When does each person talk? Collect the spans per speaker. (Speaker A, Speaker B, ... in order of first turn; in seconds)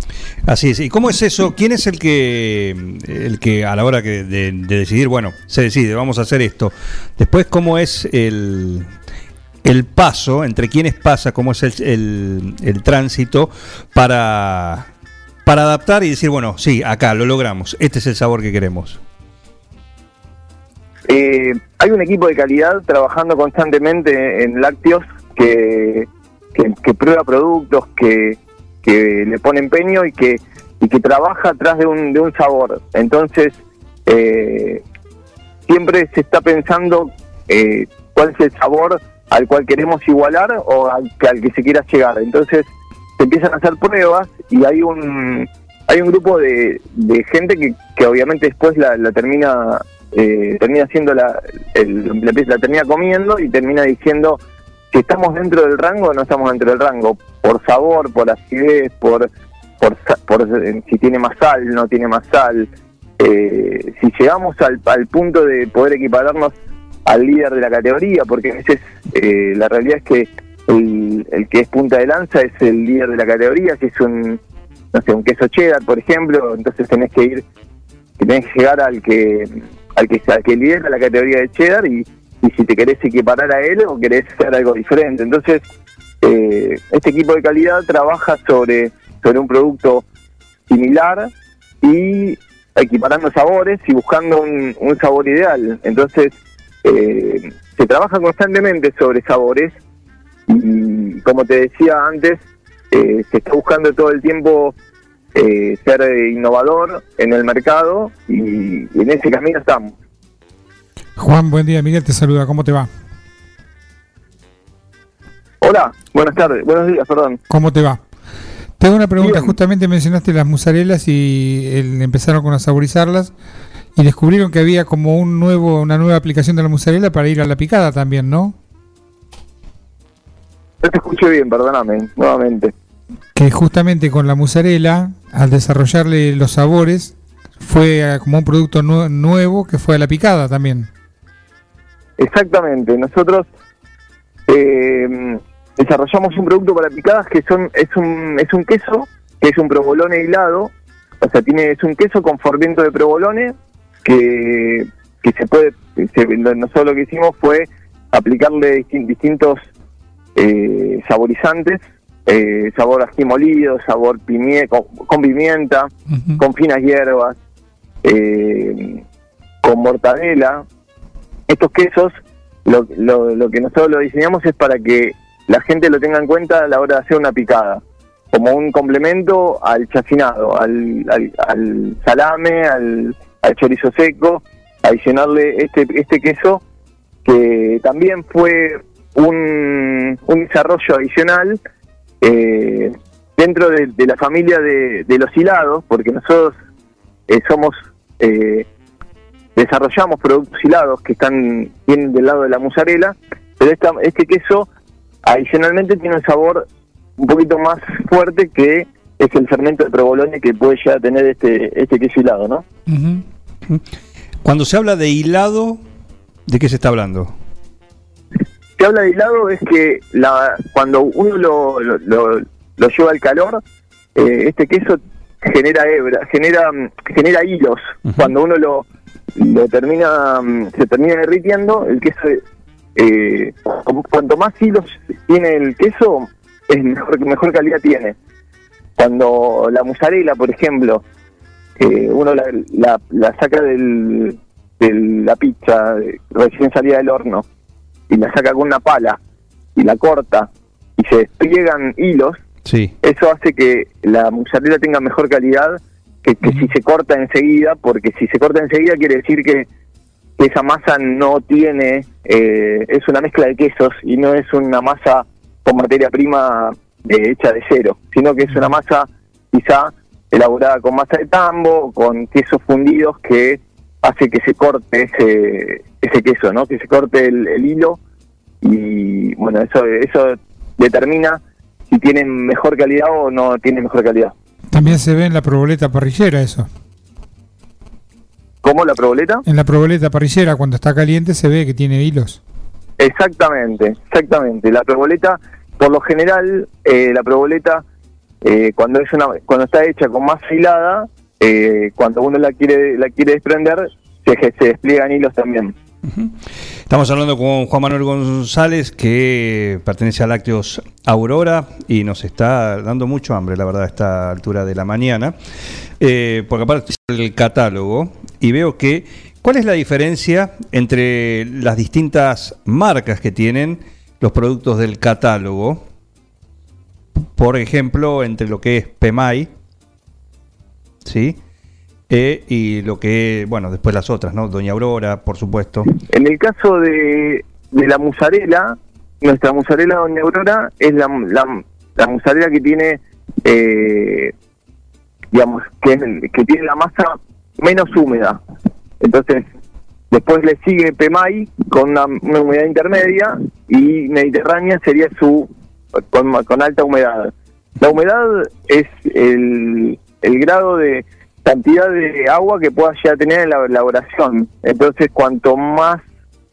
Speaker A: 0.5-8.9, 9.6-14.9, 15.4-19.0, 214.4-215.8, 216.5-217.3, 252.6-252.9, 306.1-306.3, 306.9-315.3, 316.0-325.8, 327.4-329.5, 331.0-331.4, 332.1-335.9
Speaker B: 21.1-34.8, 35.7-54.4, 54.9-59.3, 59.8-66.5, 67.0-74.4, 74.9-77.4, 78.2-85.6, 86.2-90.0, 90.7-91.3, 91.8-96.3, 96.8-99.7, 100.5-102.4, 102.9-104.7, 105.3-109.9, 115.6-117.4, 119.2-119.6, 130.8-132.7, 142.2-143.5, 144.5-153.5, 154.0-159.6, 160.3-167.3, 168.0-169.0, 169.6-170.6, 171.5-172.1, 172.6-177.8, 178.3-186.6, 187.2-191.6, 192.2-196.5, 197.3-198.7, 199.6-204.7, 205.2-206.7, 207.2-212.6, 218.8-223.6, 224.1-232.4, 232.9-238.2, 239.0-241.0, 241.8-247.4, 248.1-249.2, 249.7-252.4, 253.0-259.7, 260.4-278.0, 278.6-284.3, 288.6-289.4, 293.0-297.8, 298.4-305.7, 336.0-344.3, 345.3-348.4, 349.0-349.4, 350.1-366.0
Speaker C: 111.2-112.9, 117.5-118.0, 118.8-123.3, 124.0-128.5, 133.3-140.9, 212.9-213.2, 284.7-286.7, 289.4-292.4